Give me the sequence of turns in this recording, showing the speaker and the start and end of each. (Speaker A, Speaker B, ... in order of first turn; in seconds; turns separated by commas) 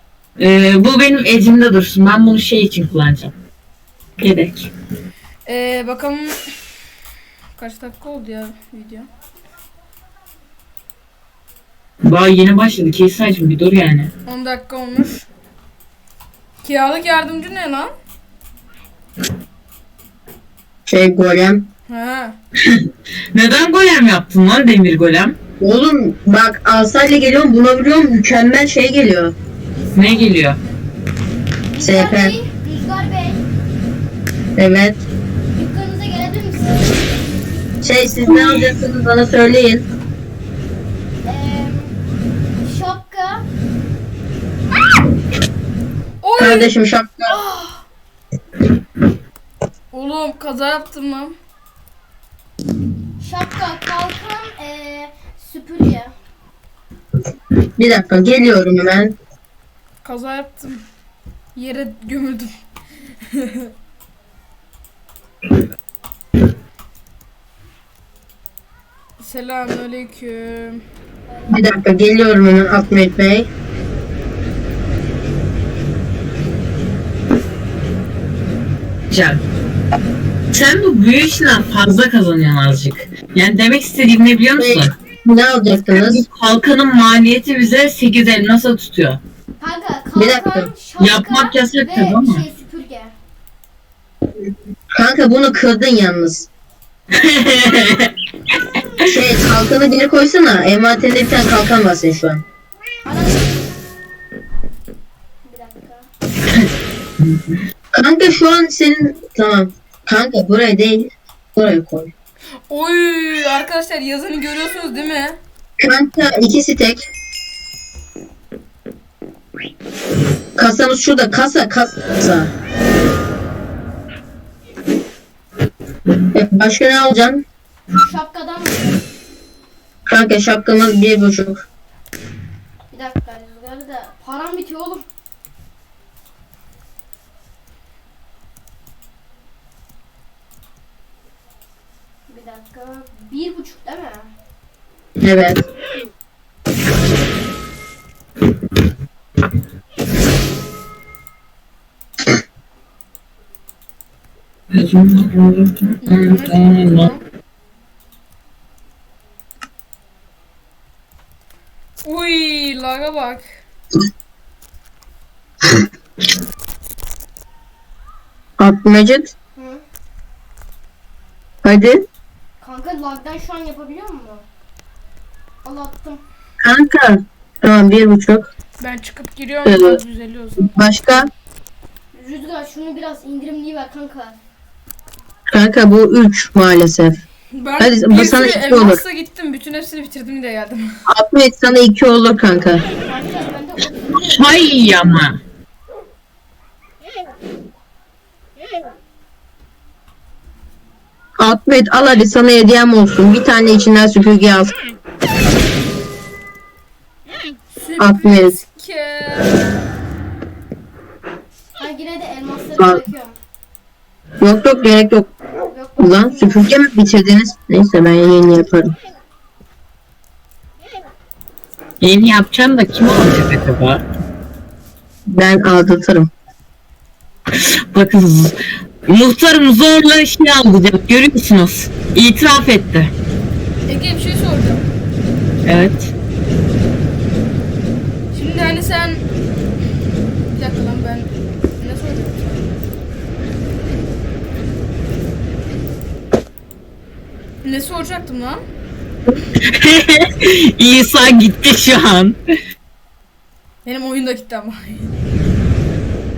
Speaker A: 0.4-3.3, Speaker A: 4.2-4.7, Speaker B: 5.5-6.5, Speaker B: 7.6-9.1, Speaker A: 12.0-14.1, Speaker B: 14.2-15.3, Speaker B: 16.6-17.9, Speaker C: 20.9-21.6, Speaker B: 21.9-22.4, Speaker A: 22.6-25.4, Speaker C: 25.6-29.3, Speaker D: 29.7-30.8, Speaker A: 29.9-30.6, Speaker D: 31.7-33.5, Speaker C: 31.8-32.4, Speaker C: 34.6-35.0, Speaker D: 35.5-37.1, Speaker C: 37.8-39.8, Speaker D: 41.2-42.0, Speaker D: 42.6-43.5, Speaker B: 46.2-46.7, Speaker C: 46.4-47.4, Speaker D: 47.3-47.8, Speaker B: 49.9-51.3, Speaker D: 53.2-56.1, Speaker C: 57.8-59.1, Speaker B: 60.0-60.8, Speaker B: 61.5-62.5, Speaker B: 63.3-63.7, Speaker B: 69.2-70.8, Speaker C: 71.5-73.5, Speaker A: 79.1-79.4, Speaker A: 80.5-84.9, Speaker C: 84.6-86.2, Speaker A: 86.0-89.2, Speaker D: 89.6-93.1, Speaker C: 90.2-90.7, Speaker A: 91.0-92.5, Speaker C: 95.0-96.5, Speaker A: 97.1-98.1, Speaker C: 99.1-102.4, Speaker D: 103.0-103.6, Speaker D: 105.4-106.1, Speaker A: 107.2-107.6, Speaker C: 107.9-112.1, Speaker B: 112.7-115.4, Speaker C: 115.8-117.1, Speaker C: 120.6-122.5, Speaker C: 126.3-127.4, Speaker D: 128.0-129.1, Speaker C: 130.1-131.6, Speaker D: 132.9-135.1, Speaker D: 142.3-144.3, Speaker C: 145.2-145.6, Speaker A: 154.7-157.1, Speaker B: 156.0-157.2, Speaker B: 162.0-163.5, Speaker C: 168.6-169.3, Speaker D: 169.6-169.8, Speaker C: 171.6-172.0, Speaker D: 172.6-174.5, Speaker D: 175.6-176.2, Speaker C: 176.6-178.5, Speaker B: 178.8-180.7, Speaker C: 179.6-180.0, Speaker C: 180.6-181.3, Speaker D: 182.1-184.4, Speaker C: 185.5-187.2, Speaker B: 187.6-190.9, Speaker C: 187.8-189.0, Speaker C: 191.1-192.8, Speaker D: 193.0-194.0, Speaker A: 194.1-195.4, Speaker C: 201.4-204.8, Speaker B: 207.8-209.8, Speaker C: 208.0-208.5, Speaker D: 211.8-213.4, Speaker C: 212.8-213.0, Speaker C: 214.4-215.3, Speaker D: 215.7-216.7, Speaker C: 216.0-218.9, Speaker A: 222.0-224.0, Speaker C: 225.3-226.3, Speaker A: 227.5-228.5, Speaker A: 229.1-233.1, Speaker B: 233.9-234.8, Speaker A: 235.6-236.1, Speaker B: 238.3-239.2, Speaker B: 240.5-242.7, Speaker B: 247.6-248.6, Speaker A: 249.6-252.4, Speaker B: 253.8-255.1